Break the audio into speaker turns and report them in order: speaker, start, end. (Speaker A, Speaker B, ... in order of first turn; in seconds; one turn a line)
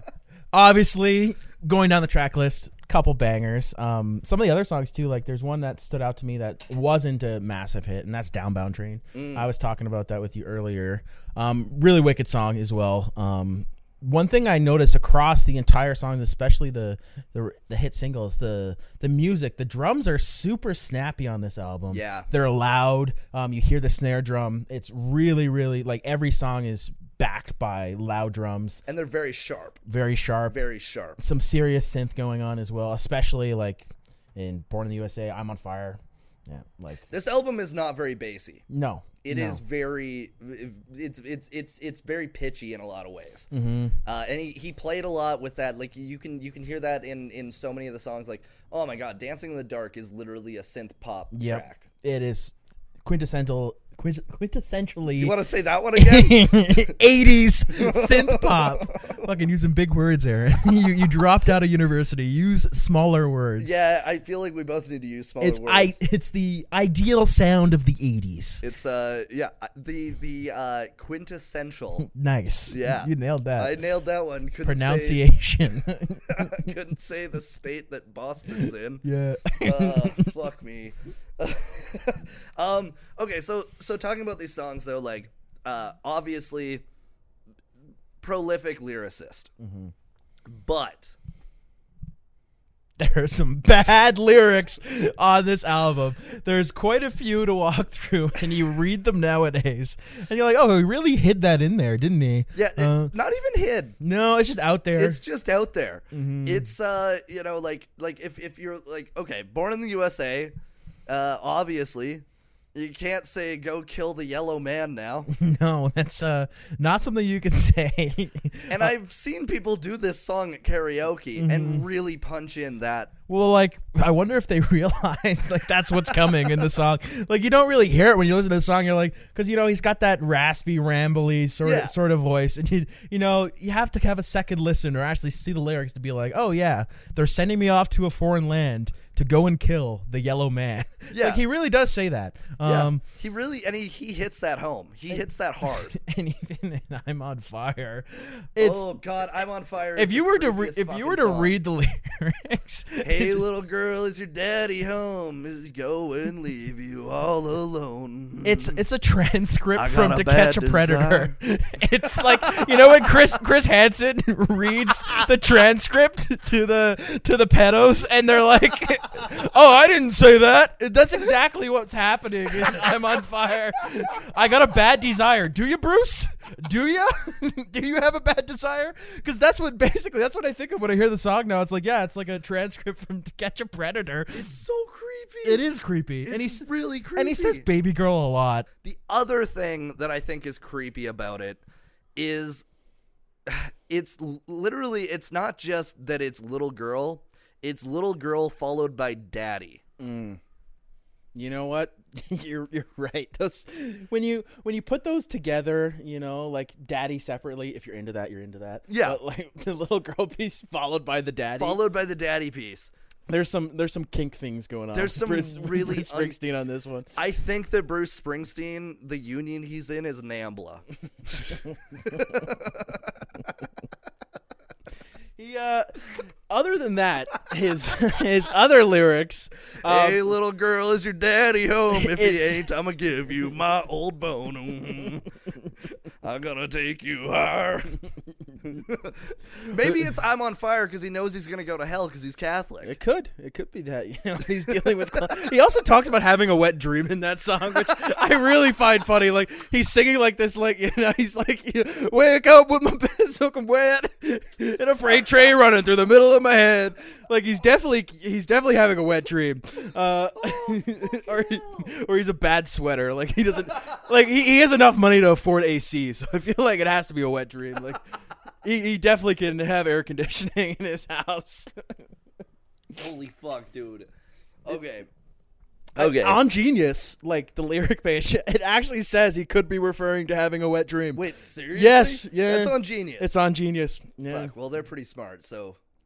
Speaker A: 0.5-28.8
Speaker B: 9.1-9.5
Speaker B: 21.9-22.3
Speaker B: 28.9-29.8
Speaker A: 29.9-30.6
Speaker B: 30.5-31.2
Speaker A: 31.2-37.1
Speaker B: 37.1-38.6
Speaker A: 38.7-39.6
Speaker B: 39.2-43.5
Speaker A: 43.5-44.0
Speaker B: 44.0-51.9
Speaker A: 51.3-55.4
Speaker B: 55.2-57.0
Speaker A: 55.9-63.8
Speaker B: 57.7-59.2
Speaker B: 63.6-66.0
Speaker A: 65.4-68.6
Speaker B: 68.6-72.1
Speaker A: 72.0-73.8
Speaker B: 72.7-75.2
Speaker A: 74.7-76.7
Speaker B: 76.3-79.0
Speaker A: 78.6-80.3
Speaker B: 79.6-86.8
Speaker B: 88.2-89.5
Speaker A: 89.6-89.9
Speaker B: 90.5-91.2
Speaker A: 93.0-103.1
Speaker B: 102.5-104.0
Speaker A: 104.0-105.2
Speaker B: 105.0-110.5
Speaker A: 106.1-106.7
Speaker B: 111.1-115.3
Speaker A: 115.3-118.9
Speaker B: 118.7-123.1
Speaker A: 121.4-121.8
Speaker A: 123.3-143.0
Speaker B: 126.1-126.7
Speaker B: 131.6-131.9
Speaker B: 141.1-141.4
Speaker B: 142.6-145.9
Speaker A: 145.9-148.9
Speaker B: 148.6-151.6
Speaker A: 150.0-153.4
Speaker B: 153.0-158.8
Speaker A: 158.4-184.5
Speaker B: 159.8-161.3
Speaker B: 162.1-163.1
Speaker B: 184.3-185.6
Speaker A: 185.4-188.7
Speaker B: 186.2-187.7
Speaker B: 188.8-191.6
Speaker B: 192.2-192.7
Speaker B: 193.5-199.8
Speaker A: 200.0-200.4
Speaker A: 201.3-211.8
Speaker B: 208.9-209.2
Speaker B: 211.6-212.9
Speaker A: 213.3-217.2
Speaker B: 214.9-216.4
Speaker B: 217.2-223.3
Speaker A: 225.4-230.2
Speaker B: 229.8-235.3
Speaker A: 231.9-232.7
Speaker B: 236.2-238.0
Speaker B: 238.6-242.9
Speaker A: 242.8-272.1
Speaker B: 244.7-245.0
Speaker B: 260.4-261.9
Speaker B: 272.9-274.1
Speaker B: 274.6-275.1
Speaker B: 275.9-276.4
Speaker A: 276.0-284.5
Speaker B: 281.1-283.3
Speaker B: 284.3-285.8